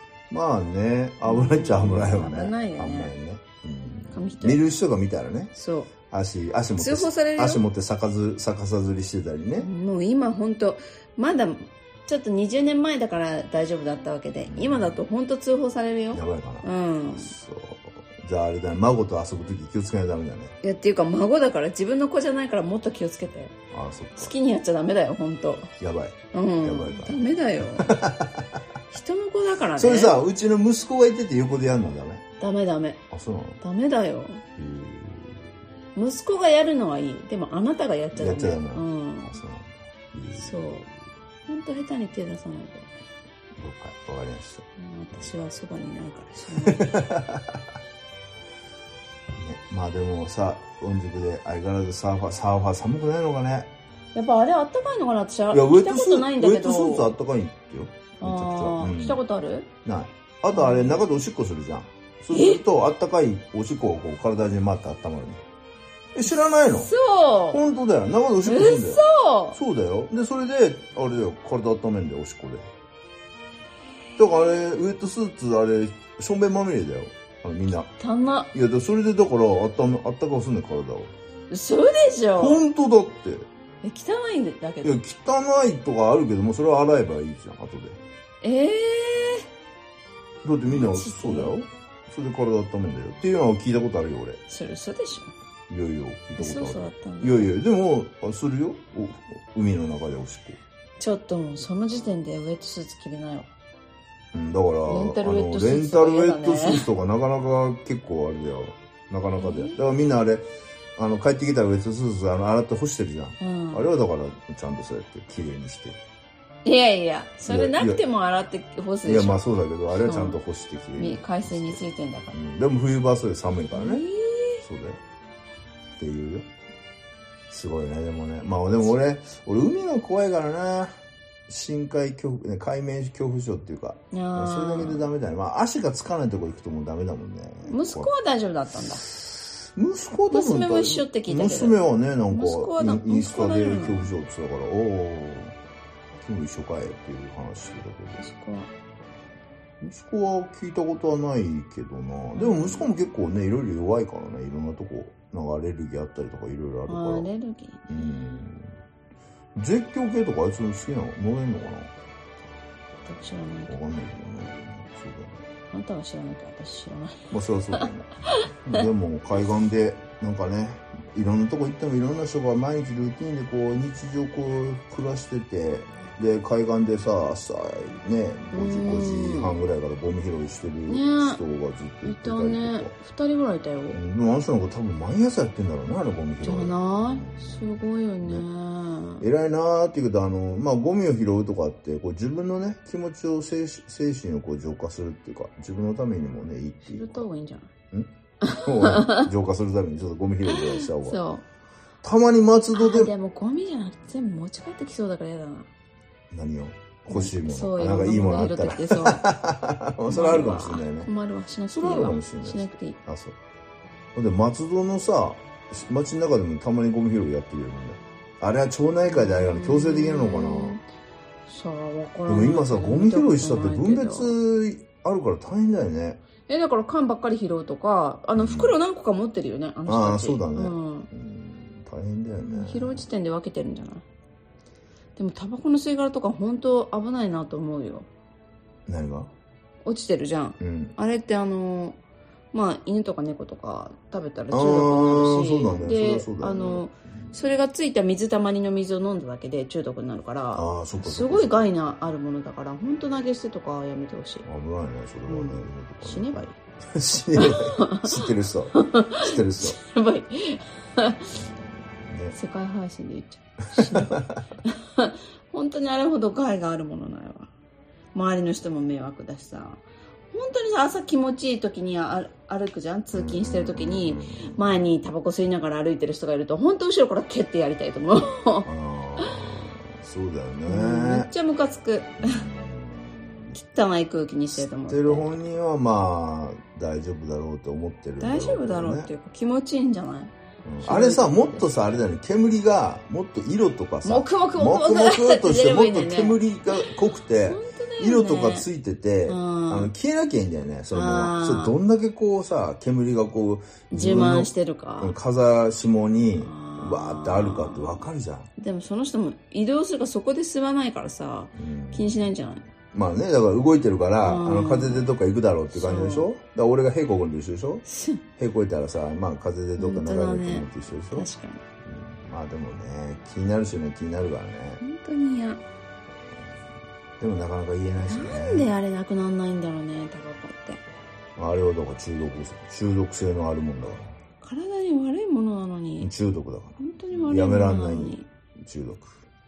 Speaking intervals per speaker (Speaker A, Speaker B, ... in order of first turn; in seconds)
Speaker A: 0.3-5.5, 6.1-9.7, 14.5-15.0, 16.1-20.6, 23.7-24.3, 25.8-27.2, 27.8-28.6, 29.8-32.2, 33.1-33.6, 34.6-35.5, 38.1-40.7, 43.6-44.7, 46.6-47.6, 49.4-53.7, 55.5-59.2, 59.9-65.4, 66.2-66.9, 67.5-72.7, 74.2-77.9, 78.5-81.1, 82.4-83.5, 84.8-88.0, 90.4-94.4, 95.7-100.6, 104.3-116.0, 117.5-118.0, 119.0-124.0, 124.6-125.0, 126.0-126.5, 127.5-130.9, 131.5-138.1, 139.1-145.6, 146.2-148.2, 149.8-157.3, 157.9-158.7, 159.6-161.9, 163.7-165.5, 167.3-182.9, 183.9-188.5, 189.2-197.2, 197.9-201.2, 202.0-203.1, 206.3-211.1, 211.7-213.4, 214.2-220.8, 222.3-226.2, 228.4-228.8, 229.9-233.1, 238.9-239.3, 240.6-240.9, 244.5-247.3, 250.5-251.6, 254.4-259.8, 261.4-262.4, 263.7-264.4, 273.1-274.8, 278.6-281.3, 282.2-283.6, 284.5-289.1, 290.6-308.5, 311.6-312.2, 312.9-317.9, 318.4-321.3, 321.8-324.8, 327.2-328.7, 331.4-334.2, 336.0-339.3
Speaker B: 1.2-3.1, 4.1-4.6, 5.5-5.9, 6.8-7.6, 9.6-17.3, 20.6-23.6, 24.2-25.7, 26.3-27.9, 28.9-30.2, 32.4-33.0, 33.6-34.5, 36.0-39.3, 40.4-40.9, 41.5-43.0, 44.8-47.0, 54.1-57.1, 58.2-59.7, 60.5-61.0, 62.3-62.6, 66.8-67.6, 68.5-69.6, 78.0-78.5, 81.5-82.6, 83.8-85.0, 88.4-89.5, 90.7-91.5, 94.5-95.3, 96.4-97.5, 101.0-103.5, 104.9-106.9, 109.4-109.8, 113.4-113.9, 116.7-120.4, 121.0-122.4, 123.7-124.6, 134.1-135.1, 137.7-139.0, 140.3-141.8, 142.3-144.1, 148.2-148.7, 152.3-152.9, 156.9-158.4, 163.1-163.8, 165.7-168.8, 178.5-179.6, 180.9-181.4, 182.0-184.0, 186.4-189.3, 196.8-197.7, 198.4-199.3, 200.5-201.4, 202.7-205.7, 207.1-209.2, 210.1-213.0, 219.1-220.8, 221.5-224.3, 226.5-231.1, 232.4-234.1, 235.2-238.1, 239.8-242.0, 242.5-254.4, 255.3-256.6, 257.4-261.3, 262.4-267.5, 268.1-278.7, 280.7-282.4, 283.5-285.4, 288.2-290.3, 290.8-291.7, 294.0-296.9, 297.5-298.7, 299.3-299.9, 300.9-301.8, 303.9-305.1, 306.4-308.1, 308.6-312.7, 314.2-315.1, 315.7-316.3, 317.9-318.2, 319.8-321.6, 324.8-325.6, 328.0-330.8, 334.4-336.1, 336.8-338.3